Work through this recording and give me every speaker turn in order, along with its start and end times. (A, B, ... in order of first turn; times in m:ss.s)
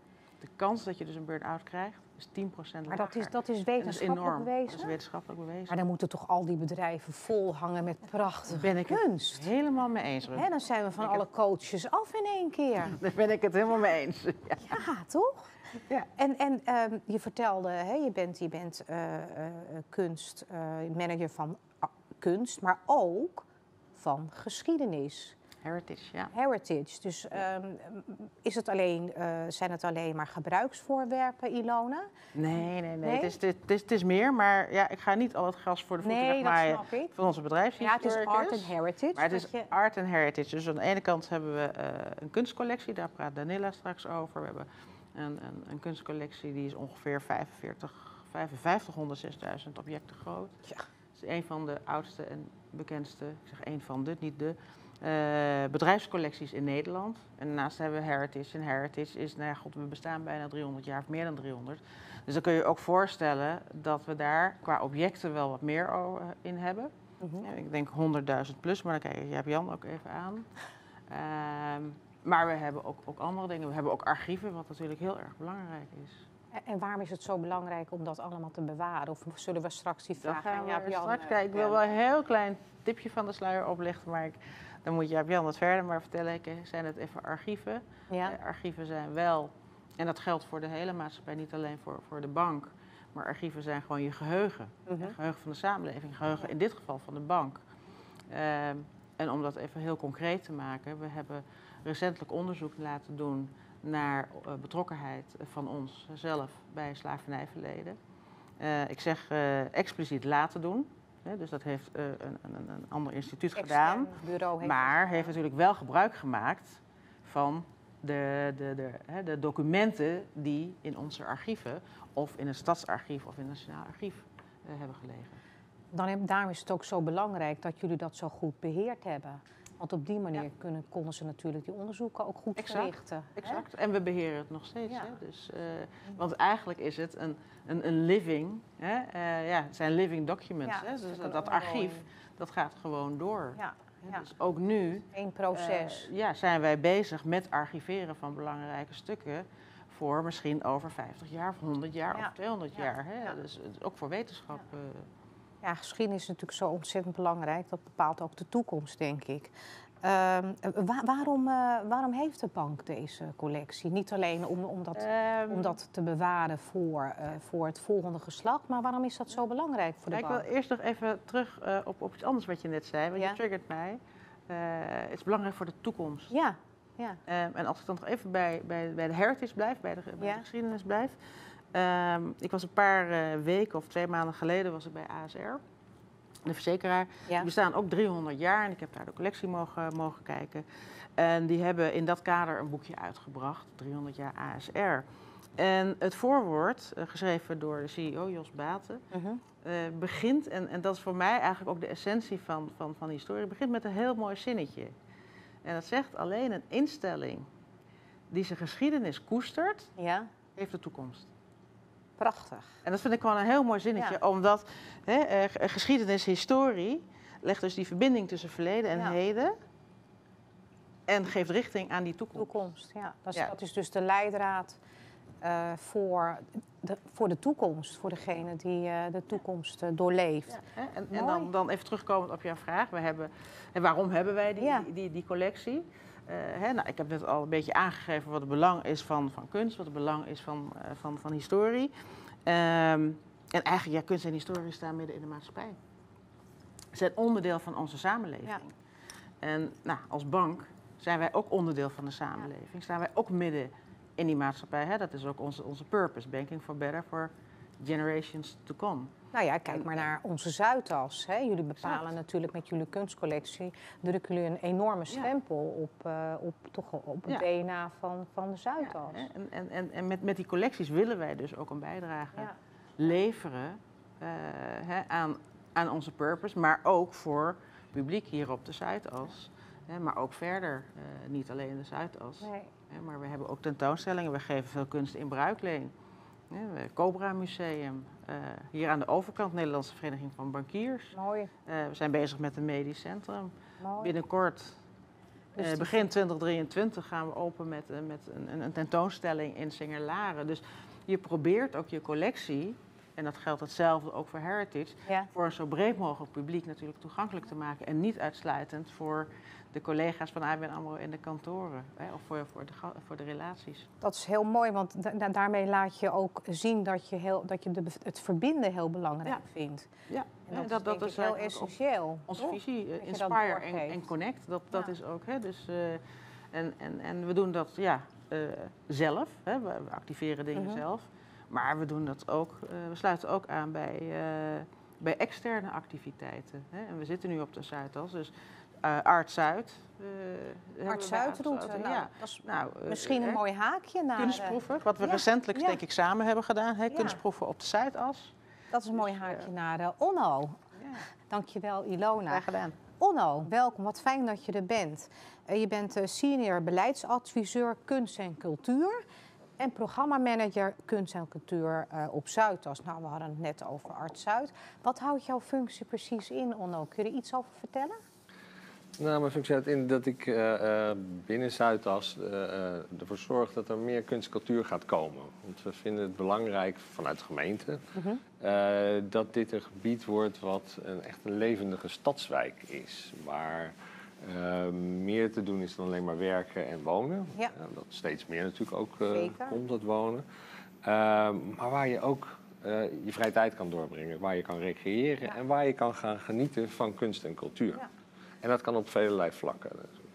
0:00.4-0:05.8 A
0:02.9-0:05.0 B
0:05.7-0:09.5 B
0:08.5-0:10.5 A
0:10.3-0:13.0 B
0:12.9-0:14.8 A
0:14.6-0:15.6 B
0:16.2-0:25.4 B
0:25.6-0:26.3 A
0:26.3-0:32.1 B
0:32.4-0:50.6 A
0:33.0-0:33.4 B
0:36.0-0:37.1 B
0:37.8-0:39.7 B
0:51.2-1:10.5 A
1:07.2-1:07.5 B
1:11.1-1:16.2 A
1:16.5-1:21.8 B
1:20.2-1:37.6 A
1:28.1-1:28.4 B
1:34.9-1:35.2 B
1:38.3-1:48.0 A
1:48.6-2:05.4 A
1:53.6-1:55.4 B
2:05.9-2:13.6 B
2:12.6-2:35.1 A
2:20.6-2:22.0 B
2:23.6-2:24.2 B
2:25.1-2:26.1 B
2:32.1-2:33.3 B
2:35.6-2:50.4 B
2:45.0-2:45.8 A
2:50.1-2:56.3 A
2:56.3-2:57.2 B
2:57.3-3:01.2 A
3:00.2-3:00.4 B
3:01.7-3:05.6 A
3:06.4-3:15.1 A
3:15.6-3:19.0 A
3:19.1-3:19.4 B
3:19.6-3:24.9 A
3:25.6-3:27.5 A
3:28.3-3:29.9 A
3:30.0-3:30.3 B
3:30.6-3:31.3 A
3:32.2-3:32.7 B
3:32.8-3:39.6 A
3:41.1-3:42.6 A
3:42.4-3:44.8 B
3:45.4-3:51.5 B
3:50.5-4:01.9 A
3:54.6-3:54.9 B
4:02.4-4:05.8 A
4:06.9-4:08.8 A
4:09.4-4:19.1 A
4:19.3-4:29.3 B
4:19.7-4:20.0 A
4:21.8-4:22.1 A
4:28.8-4:45.9 A
4:42.4-4:42.7 B
4:46.5-4:54.8 A
4:51.1-4:51.5 B
4:53.8-4:54.1 B
4:55.6-4:56.1 B
4:55.6-5:13.9 A
5:14.0-5:19.9 B
5:20.1-5:21.7 A
5:20.5-5:24.0 B
5:22.3-5:43.4 A
5:30.6-5:30.8 B
5:40.9-5:45.8 B
5:44.2-5:48.3 A
5:46.9-5:47.2 B
5:48.7-5:50.7 B
5:49.0-5:49.4 A
5:50.8-5:51.1 A
5:51.3-5:59.0 B
5:52.3-5:52.8 A
5:59.6-6:08.0 B
6:09.0-6:17.9 C
6:18.0-6:18.2 B
6:18.4-6:30.2 C
6:29.1-6:29.6 B
6:30.8-6:37.9 C
6:38.4-6:39.9 C